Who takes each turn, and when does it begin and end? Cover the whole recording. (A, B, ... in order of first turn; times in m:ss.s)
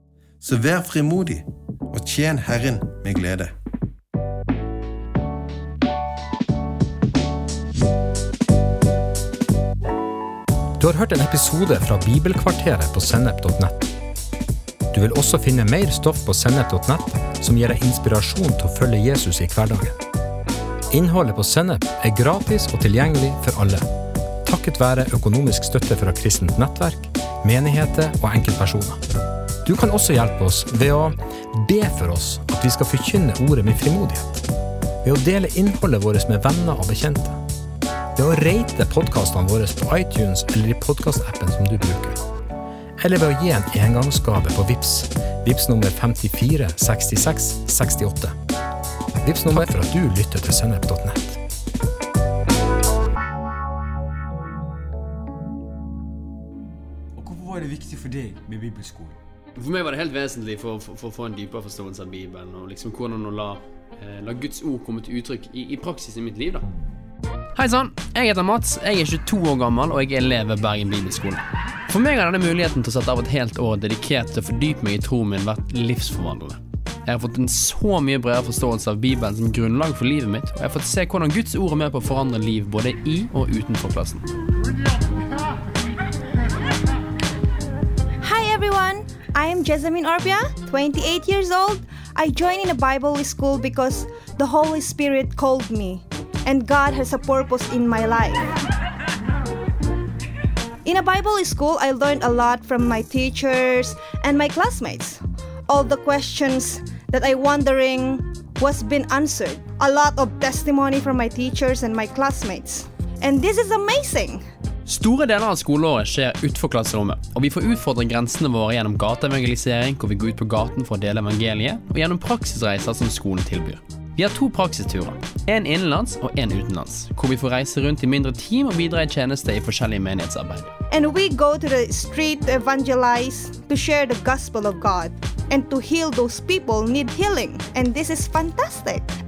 0:00.4-0:03.5 A
0:10.8-0:13.9 B
0:14.9-0:20.0 B
0:20.9-0:23.9 B
0:24.4-0:29.0 B
0:29.6-0:34.4 B
0:35.0-0:37.4 B
0:38.2-0:42.2 B
0:43.0-0:48.3 B
0:49.2-0:51.4 B
0:57.2-0:59.2 C
0:59.6-1:06.6 D
1:07.5-1:24.2 D
1:28.2-1:38.5 E
1:40.8-1:54.4 E
1:54.9-2:10.7 D
2:10.9-2:19.1 E